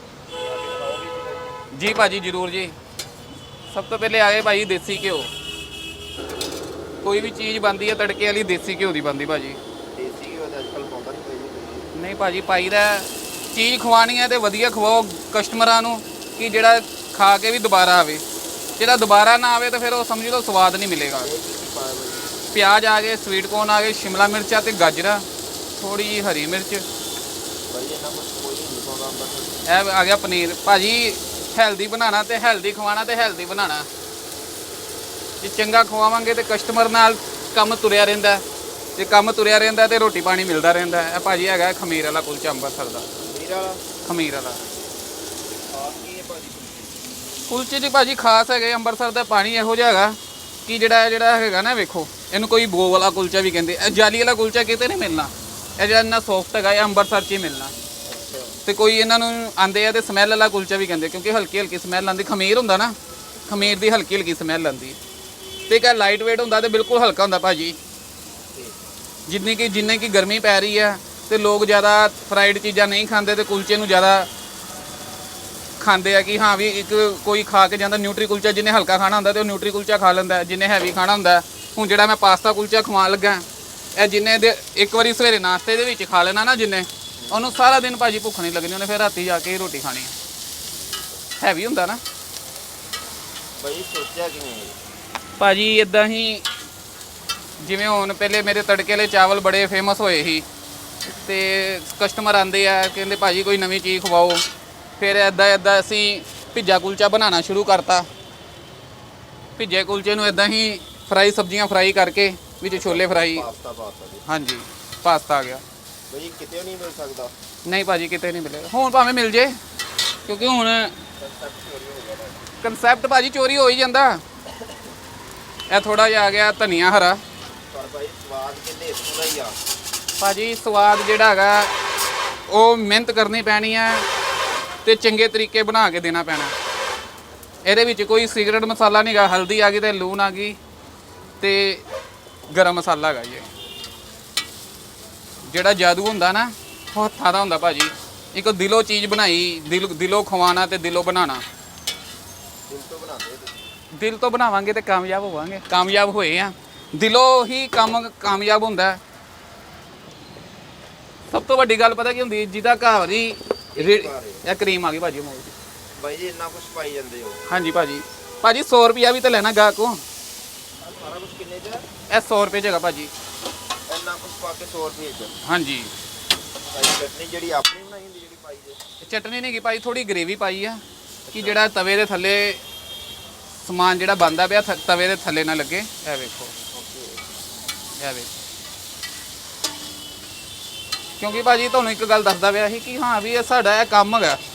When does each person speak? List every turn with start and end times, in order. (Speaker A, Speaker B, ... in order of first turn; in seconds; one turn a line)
Speaker A: 0.4-1.7
Speaker B: 1.7-2.7
Speaker B: 3.7-5.3
Speaker B: 7.0-9.6
Speaker A: 9.9-11.9
Speaker B: 11.9-18.2
Speaker B: 18.8-21.3
Speaker A: 21.2-22.3
Speaker B: 22.5-25.2
Speaker B: 25.8-26.8
Speaker A: 27.7-29.6
Speaker B: 29.7-33.9
Speaker B: 35.4-38.4
Speaker B: 39.0-43.1
Speaker A: 43.2-43.8
Speaker B: 44.0-44.6
Speaker A: 45.7-47.0
Speaker B: 47.5-57.7
Speaker A: 58.0-58.6
Speaker B: 58.6-62.9
Speaker B: 63.5-65.0
Speaker B: 65.7-67.8
Speaker A: 68.5-68.8
Speaker B: 69.3-74.3
Speaker B: 75.8-83.4
Speaker B: 84.0-90.1
Speaker A: 87.2-87.7
Speaker B: 91.4-92.0
Speaker A: 93.6-94.8
Speaker B: 95.4-96.4
Speaker B: 97.6-100.4
Speaker B: 101.1-104.4
Speaker B: 105.0-108.1
Speaker B: 109.6-113.5
Speaker A: 112.7-114.2
Speaker B: 114.3-115.6
Speaker A: 116.1-117.3
Speaker B: 117.7-119.6
Speaker B: 120.2-121.0
Speaker A: 121.2-122.5
Speaker B: 122.6-124.2
Speaker B: 125.7-127.2
Speaker A: 127.7-129.6
Speaker B: 130.2-131.8
Speaker B: 132.5-134.1
Speaker B: 134.8-136.5
Speaker B: 137.6-140.6
Speaker B: 141.4-141.8
Speaker B: 142.5-143.5
Speaker B: 145.5-151.4
Speaker A: 152.7-153.6
Speaker B: 153.9-159.0
Speaker B: 161.3-165.5
Speaker A: 163.7-164.4
Speaker A: 166.0-167.4
Speaker B: 167.5-170.0
Speaker A: 170.8-171.8
Speaker B: 172.1-173.1
Speaker A: 173.9-175.4
Speaker B: 175.4-175.9
Speaker A: 176.7-178.8
Speaker B: 179.0-180.8
Speaker A: 181.2-181.6
Speaker B: 181.3-182.6
Speaker B: 183.6-186.5
Speaker A: 186.7-187.3
Speaker B: 188.0-188.3
Speaker B: 191.2-194.4